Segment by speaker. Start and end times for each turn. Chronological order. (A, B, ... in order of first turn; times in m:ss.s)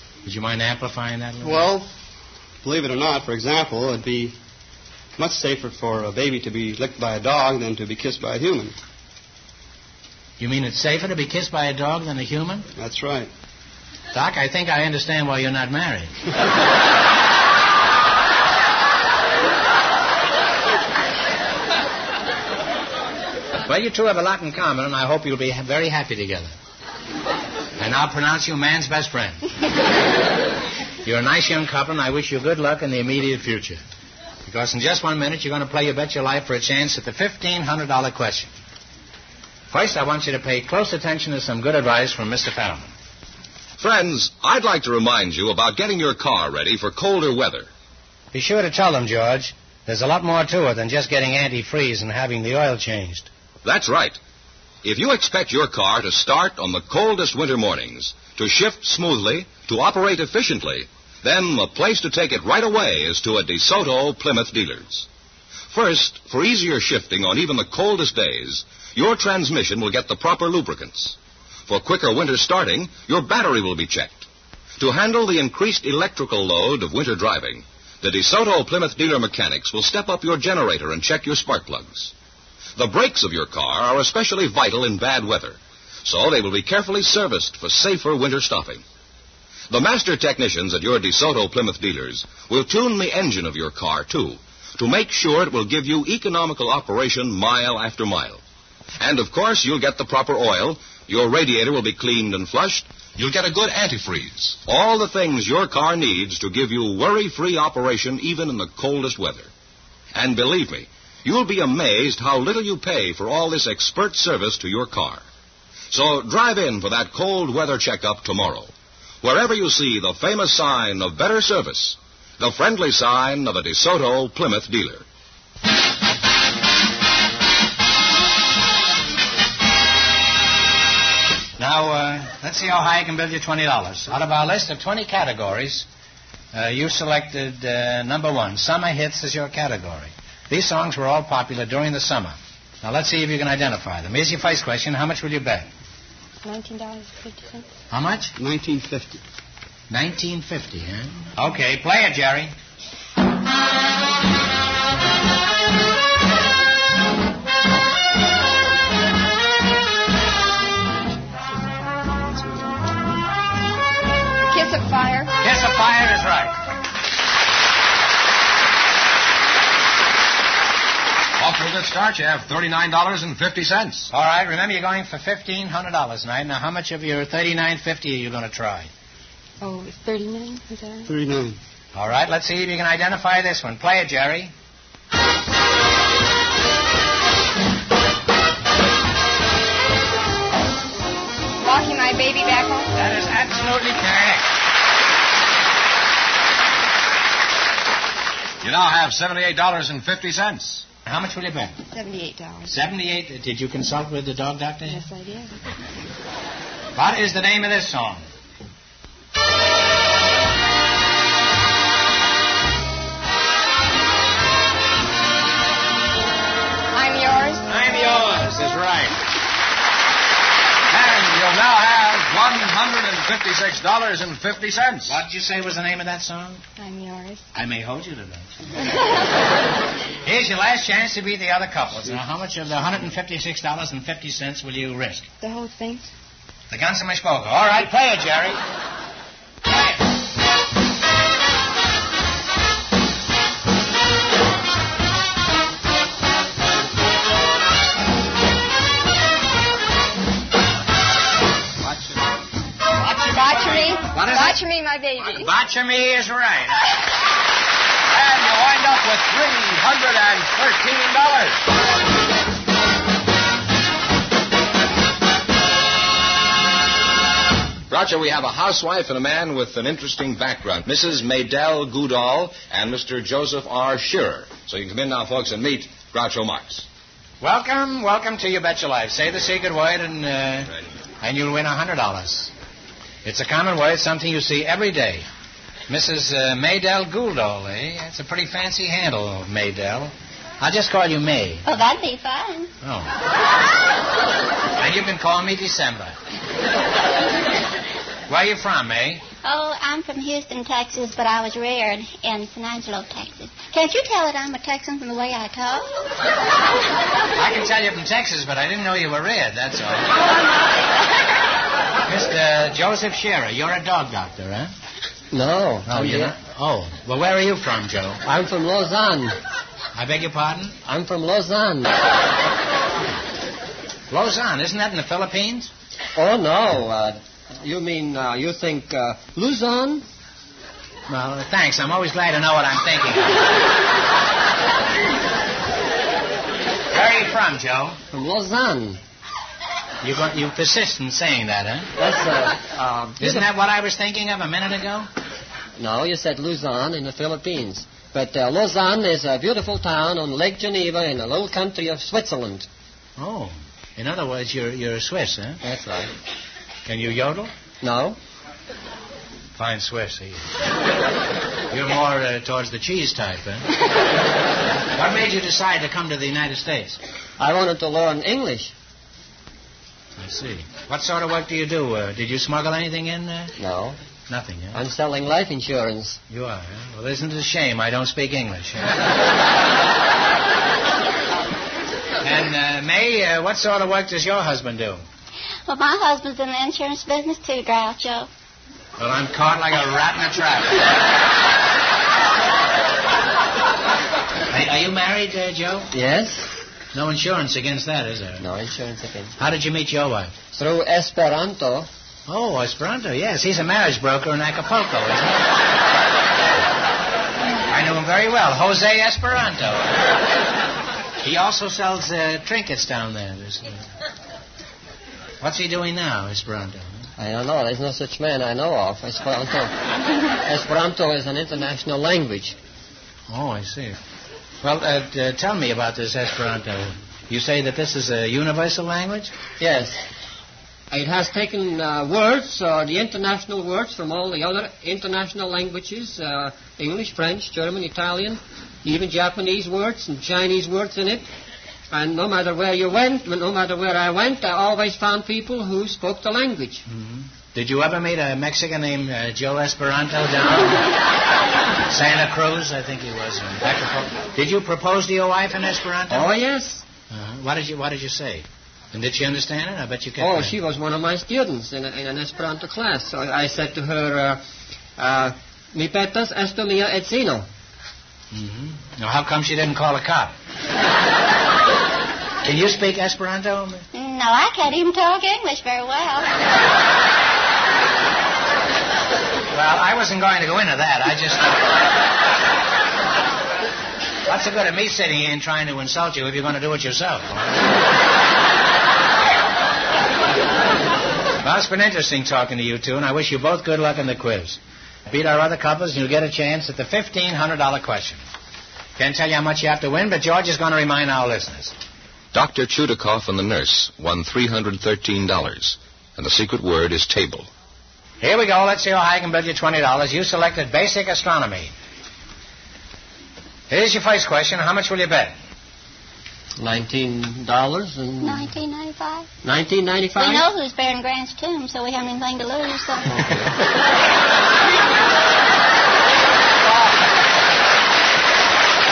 0:00.2-0:01.7 A
0:01.4-0:01.9 B
0:02.6-0:04.4 B
0:05.2-0:08.7 B
0:10.4-0:12.6 A
0:12.8-0:13.3 B
0:14.1-0:16.1 A
0:23.6-0:26.5 A
0:27.8-0:29.4 A
0:31.0-0:33.8 A
0:34.5-0:38.5 A
0:39.7-0:42.9 A
0:43.8-0:47.7 C
0:48.3-0:53.3 A
0:53.6-0:54.2 C
0:54.8-1:05.1 C
1:05.7-1:11.2 C
1:11.7-1:14.2 C
1:14.8-1:22.1 C
1:22.8-1:28.8 C
1:29.7-1:38.4 C
1:39.0-1:49.5 C
1:50.1-1:55.2 C
1:55.9-1:58.7 C
1:59.2-2:05.0 C
2:11.6-2:15.8 A
2:16.5-2:25.7 A
2:26.4-2:27.6 D
2:27.9-2:28.3 A
2:28.4-2:29.2 B
2:29.9-2:32.5 A
2:42.1-2:42.8 D
2:44.4-2:45.3 D
2:45.4-2:46.6 A
2:51.4-2:54.1 C
2:54.1-2:58.9 A
2:59.6-3:01.1 D
3:01.1-3:01.6 B
3:01.9-3:04.5 A
3:11.6-3:12.9 D
3:13.0-3:14.5 A
3:18.6-3:20.8 C
3:21.0-3:21.8 A
3:21.9-3:22.7 D
3:22.7-3:25.0 A
3:24.9-3:25.6 D
3:27.0-3:28.2 A
3:36.9-3:37.6 D
3:37.7-3:39.2 A
3:40.9-3:45.2 C
3:45.1-3:46.6 A
3:46.8-3:47.4 D
3:47.5-3:48.5 A
3:50.2-3:55.3 A
3:55.4-3:56.1 D
3:56.7-3:58.6 A
4:13.0-4:13.8 C
4:13.2-4:15.5 D
4:14.1-4:14.6 A
4:15.2-4:17.0 A
4:18.1-4:21.6 C
4:27.9-4:36.8 C
4:37.4-4:42.5 A
4:43.2-4:45.2 A
4:45.9-4:51.6 A
4:51.6-4:52.7 E
4:52.8-4:53.1 A
4:54.8-4:56.2 A
4:58.3-4:59.2 A
4:59.4-5:05.9 E
5:07.4-5:10.2 A
5:12.1-5:14.7 A
5:15.3-5:16.3 F
5:15.8-5:18.2 A
5:18.2-5:19.4 F
5:19.9-5:20.8 A
5:20.8-5:21.9 F
5:24.1-5:25.7 A
5:26.2-5:30.0 F
5:31.1-5:33.6 A
5:36.9-5:38.0 A
5:38.1-5:39.0 F
5:40.0-5:41.9 A
5:42.0-5:43.4 F
5:43.2-5:45.1 A
5:45.8-5:52.7 F
5:53.2-5:55.6 A
5:55.6-5:56.1 F
5:56.8-5:57.5 A
5:57.8-5:58.2 F
5:59.6-6:00.6 A
6:01.7-6:03.7 A
6:04.9-6:07.0 A
6:07.4-6:08.7 F
6:10.2-6:13.5 A
6:13.6-6:14.0 F
6:14.3-6:14.8 A
6:14.7-6:16.2 F
6:16.3-6:19.0 A
6:22.2-6:25.0 A
6:25.7-6:28.3 E
6:29.0-6:30.9 A
6:34.5-6:35.9 A
6:35.9-6:36.5 F
6:36.9-6:38.4 A
6:38.4-6:39.3 F
6:39.4-6:40.3 A
6:40.5-6:41.9 F
6:42.3-6:45.5 A
6:47.7-6:50.0 A
6:51.2-6:53.8 A
6:55.4-6:57.1 A
6:57.2-6:59.7 F
7:00.4-7:02.6 F
7:03.3-7:04.0 A
7:04.6-7:09.3 A
7:09.6-7:10.0 F
7:10.9-7:21.2 F
7:21.9-7:26.8 F
7:26.9-7:30.9 A
7:31.8-7:36.3 A
7:36.1-7:36.8 F
7:37.1-7:40.5 A
7:40.2-7:44.4 F
7:45.0-7:47.4 F
7:48.3-7:50.3 A
7:52.4-7:53.8 A
7:53.9-7:56.3 E
7:59.5-8:01.6 A
8:04.2-8:07.6 A
8:11.4-8:18.2 A
8:19.0-8:21.7 A
8:22.3-8:27.5 C
8:28.2-8:31.7 A
8:33.7-8:35.3 A
8:36.6-8:38.5 F
8:38.2-8:39.3 E
8:39.4-8:40.4 F
8:40.1-8:43.2 E
8:43.1-8:43.4 F